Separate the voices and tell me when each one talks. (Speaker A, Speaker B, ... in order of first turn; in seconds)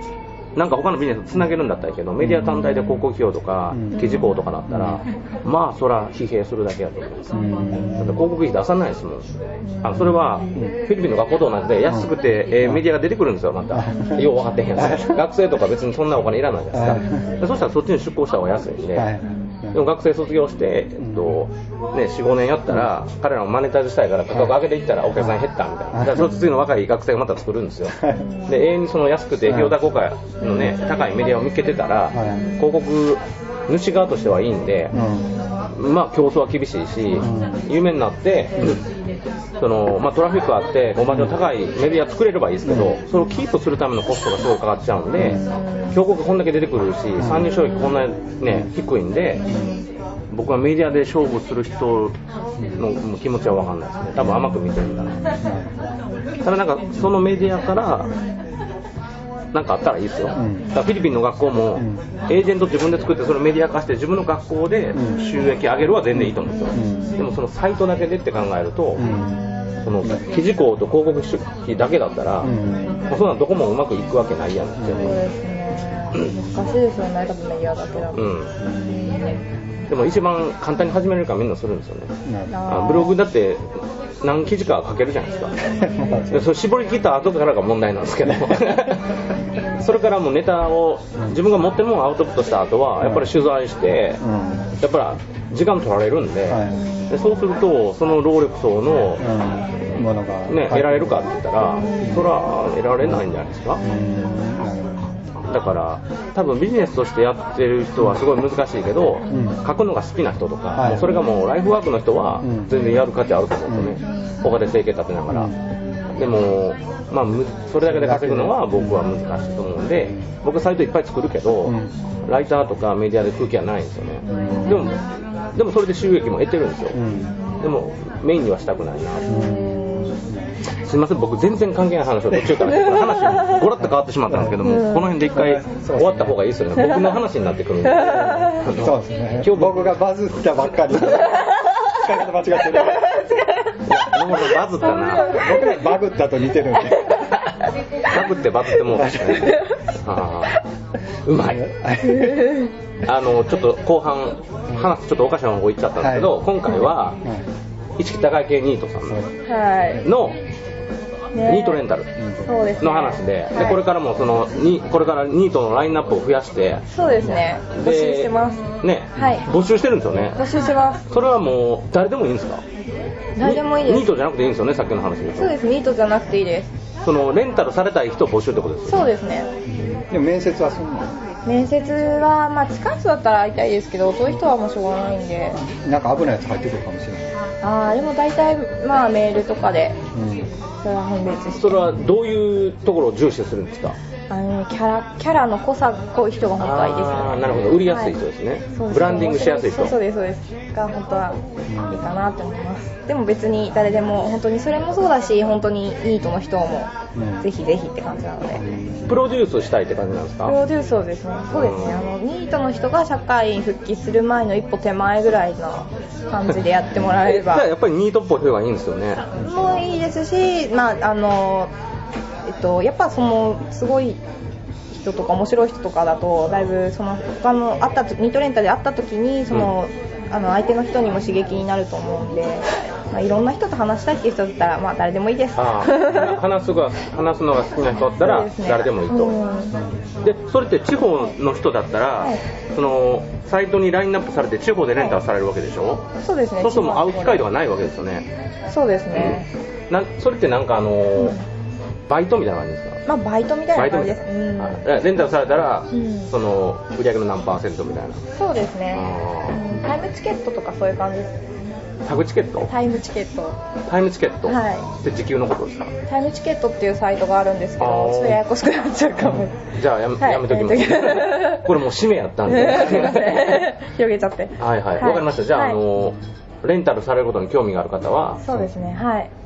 Speaker A: 0.6-7.4, 8.0-9.3, 9.8-19.1, 19.7-34.9, 35.7-38.8, 39.6-49.5, 50.3-52.1, 52.8-55.2, 56.4-58.1, 59.5-69.2, 69.8-72.5, 73.1-75.3, 78.1-78.5, 79.9-82.1, 82.7-85.5, 86.3-89.2, 89.8-94.2, 94.8-99.2, 99.9-103.8, 105.5-115.5, 116.1-127.0, 127.6-129.3, 130.7-140.0, 140.8-141.4, 143.8-145.7, 148.0-150.6, 151.2-151.6, 153.0-157.2, 158.0-159.2, 160.0-160.4, 161.4-162.1, 162.8-166.8, 167.7-170.4, 171.1-172.6, 173.4-175.5, 177.0-179.1, 191.6-193.9, 196.6-199.9, 209.1-210.6, 211.5-212.0, 217.0-219.3, 235.6-239.3, 240.2-246.1, 246.6-248.3, 249.1-251.4, 252.1-253.0, 253.7-258.2, 258.9-259.7, 262.1-262.7, 263.9-265.9, 267.8-268.4, 269.7-273.6, 274.6-278.4
Speaker B: 2.2-2.7, 3.7-4.1, 4.7-5.0, 7.3-8.2, 13.7-15.2, 16.7-17.3, 18.9-19.8, 21.0-21.3, 24.3-24.6, 25.9-26.4, 28.0-28.2, 29.4-29.8, 32.1-32.5, 34.9-35.3, 37.2-37.6, 42.6-43.0, 45.1-45.4, 47.2-47.5, 49.4-49.7, 54.2-54.6, 55.4-55.7, 60.3-60.7, 61.8-62.0, 64.9-65.2, 66.1-67.2, 69.0-69.4, 70.0-70.3, 72.4-73.0, 74.8-75.2, 78.6-79.8, 82.2-82.5, 85.8-86.4, 88.4-88.8, 93.0-93.3, 94.2-94.8, 96.5-96.8, 99.2-101.3, 102.0-102.3, 103.8-105.1, 109.3-109.6, 110.8-111.2, 112.4-112.7, 113.7-114.0, 115.3-115.7, 117.8-119.0, 121.7-121.9, 124.3-124.9, 126.9-127.3, 129.3-130.6, 133.8-134.6, 135.3-136.4, 138.6-143.2, 145.2-147.3, 148.9-149.5, 151.4-152.6, 156.0-156.3, 162.2-162.7, 167.0-167.4, 179.7-181.1, 185.6-187.2, 190.1-190.5, 201.7-202.0, 207.1-207.4, 208.6-209.2, 219.3-219.7, 278.4-279.0
Speaker C: 3.9-4.4, 17.1-17.4, 28.1-28.5, 30.4-30.7, 32.3-32.8, 34.9-35.7, 45.3-46.0, 49.4-49.8, 66.5-67.2, 69.3-69.8, 72.5-73.1, 74.9-78.2, 78.8-79.4, 82.5-83.2, 101.8-102.2, 129.2-130.3, 133.3-133.6, 134.6-135.1, 136.8-137.1, 137.9-138.6, 142.9-144.2, 144.8-145.7, 149.5-149.8, 152.0-152.7, 159.5-160.0, 161.3-161.8, 162.4-163.8, 166.9-168.6, 169.2-169.4, 170.3-171.0, 173.4-174.1, 175.3-176.7, 178.9-179.5, 181.4-185.6, 187.6-190.0, 190.8-191.9, 194.3-198.1, 198.7-206.9, 207.4-208.6, 210.4-217.7, 219.4-221.7, 222.4-224.2, 224.9-236.4, 238.2-239.7, 246.2-247.4, 248.7-249.4, 251.2-251.4, 253.1-254.8, 255.9-256.3, 258.3-261.4, 262.7-263.6, 264.4-264.9, 266.1-271.7, 272.5-275.8, 278.4-279.3